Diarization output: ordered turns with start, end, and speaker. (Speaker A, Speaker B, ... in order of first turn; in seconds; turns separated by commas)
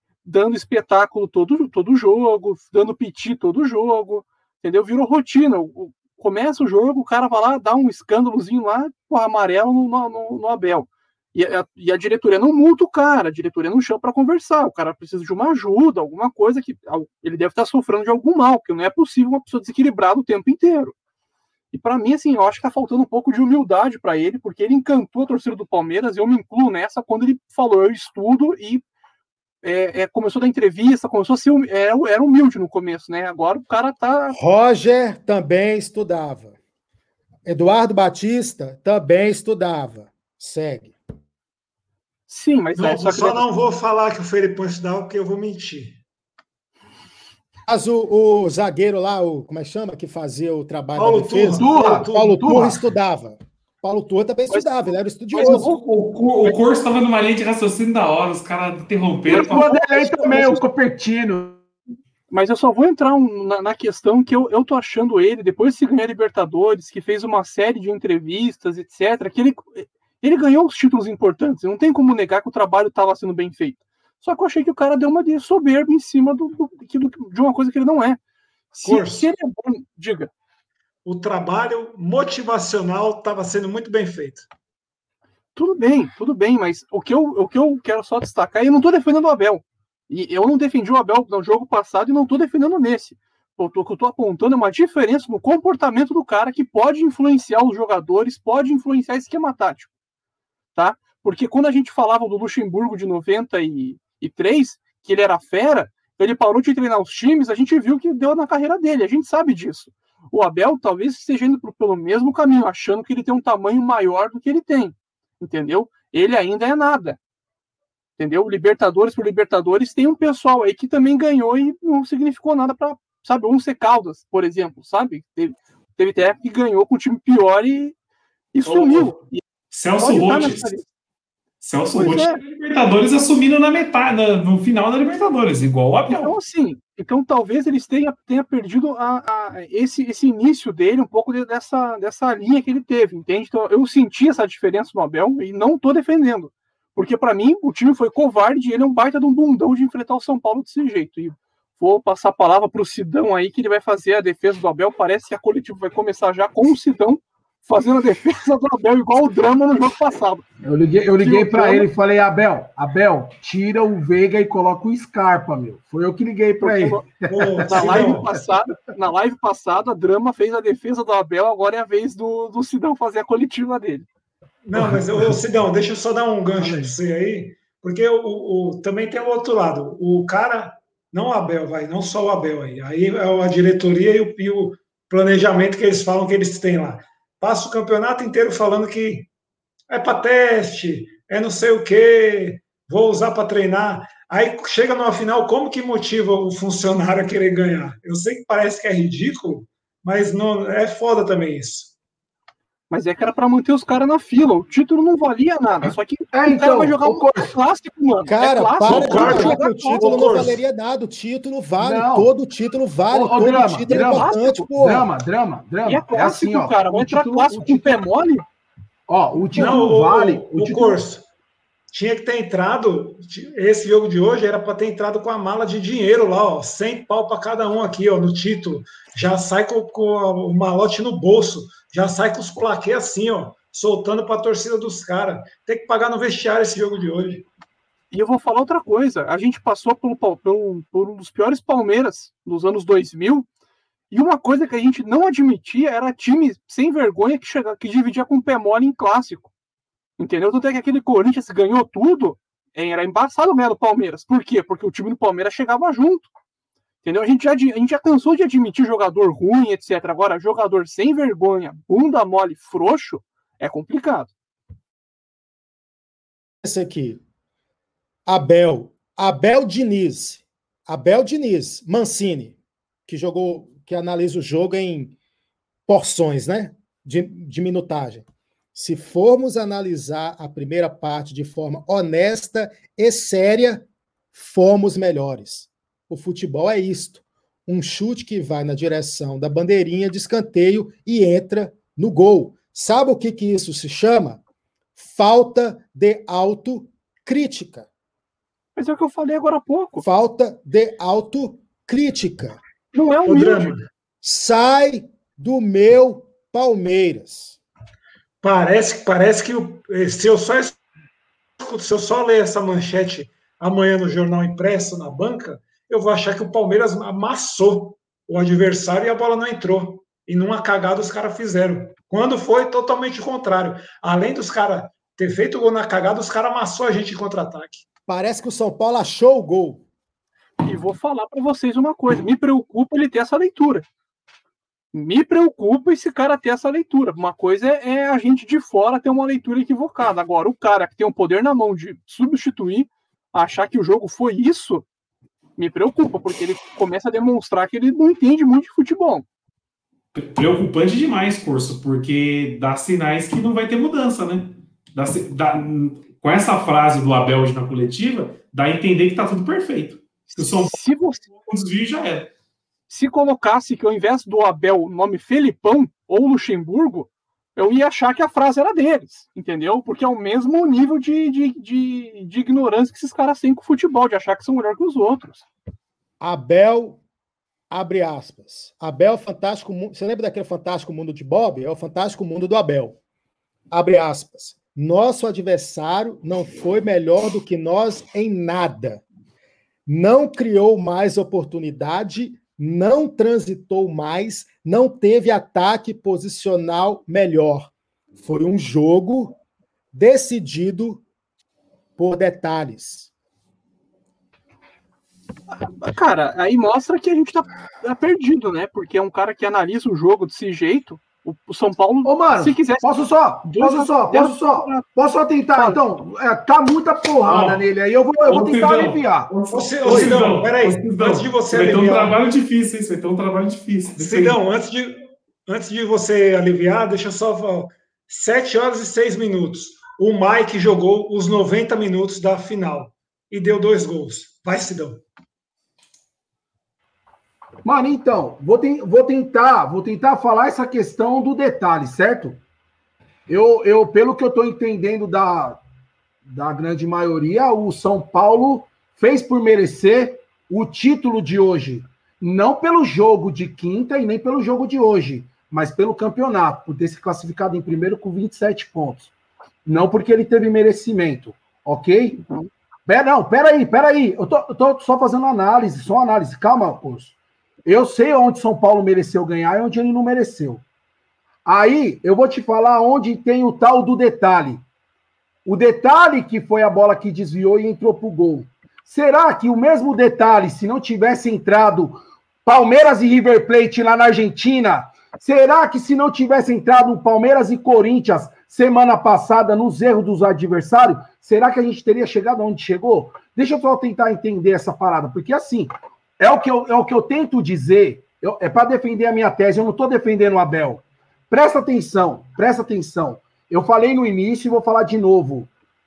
Speaker A: 0.2-20.9, Speaker A: 21.7-28.8, Speaker A: 29.6-34.4, Speaker B: 34.3-36.6, Speaker B: 37.5-41.0, Speaker A: 42.3-43.6, Speaker C: 42.8-46.0, Speaker B: 47.7-55.7, Speaker C: 51.0-52.4, Speaker D: 51.5-52.8, Speaker A: 55.3-55.8, Speaker E: 55.4-60.5, Speaker D: 59.3-61.6, Speaker A: 59.3-60.6, Speaker A: 62.3-78.2, Speaker A: 78.7-80.3, Speaker C: 78.8-79.3, Speaker C: 81.0-84.5, Speaker A: 85.6-99.9, Speaker A: 100.8-117.2, Speaker A: 118.2-128.0, Speaker A: 128.5-129.4, Speaker E: 128.7-129.2, Speaker E: 129.7-130.7, Speaker A: 130.0-130.9, Speaker E: 131.6-136.3, Speaker A: 131.9-132.4, Speaker A: 136.1-160.4, Speaker D: 160.7-168.2, Speaker A: 161.2-161.9, Speaker A: 166.6-167.1, Speaker C: 167.3-168.3, Speaker A: 167.7-174.1, Speaker C: 174.7-189.3, Speaker D: 174.8-175.3, Speaker D: 176.6-176.9, Speaker C: 189.9-201.9, Speaker A: 202.9-210.2, Speaker D: 206.3-207.5, Speaker B: 208.3-215.1, Speaker C: 208.9-210.6, Speaker D: 211.8-212.3, Speaker D: 213.1-218.0, Speaker A: 213.9-214.7, Speaker A: 215.9-218.4, Speaker D: 219.1-221.0, Speaker C: 219.5-221.2, Speaker C: 221.9-237.5, Speaker A: 238.1-243.5, Speaker A: 244.1-249.5, Speaker A: 250.2-256.3, Speaker A: 257.0-264.3, Speaker B: 266.6-267.2, Speaker B: 268.3-272.6, Speaker B: 273.1-275.1, Speaker B: 275.9-294.4, Speaker B: 295.0-297.9, Speaker A: 298.8-300.1, Speaker B: 300.0-302.6, Speaker A: 302.9-303.8, Speaker C: 303.3-303.8, Speaker B: 304.2-307.6, Speaker C: 308.4-310.8, Speaker C: 311.6-327.9, Speaker B: 328.1-329.8, Speaker A: 330.6-333.9, Speaker A: 334.9-344.9, Speaker A: 345.6-349.2, Speaker E: 350.1-360.8, Speaker A: 360.3-361.2, Speaker E: 361.4-362.3, Speaker A: 362.9-375.4, Speaker B: 376.2-377.0, Speaker B: 377.7-383.0, Speaker B: 383.7-389.0, Speaker B: 389.9-399.4, Speaker B: 399.9-401.0, Speaker B: 402.0-403.1, Speaker A: 405.6-412.8, Speaker D: 412.1-419.3, Speaker A: 413.5-414.9, Speaker A: 415.6-415.8, Speaker E: 417.2-417.6, Speaker E: 418.2-424.4, Speaker C: 419.5-422.2, Speaker D: 419.9-420.2, Speaker C: 424.0-435.0, Speaker D: 437.6-442.4, Speaker D: 443.3-445.6, Speaker D: 446.3-459.1, Speaker D: 459.7-462.2, Speaker D: 462.9-467.1, Speaker D: 467.6-470.6, Speaker D: 471.4-474.6, Speaker D: 475.4-505.5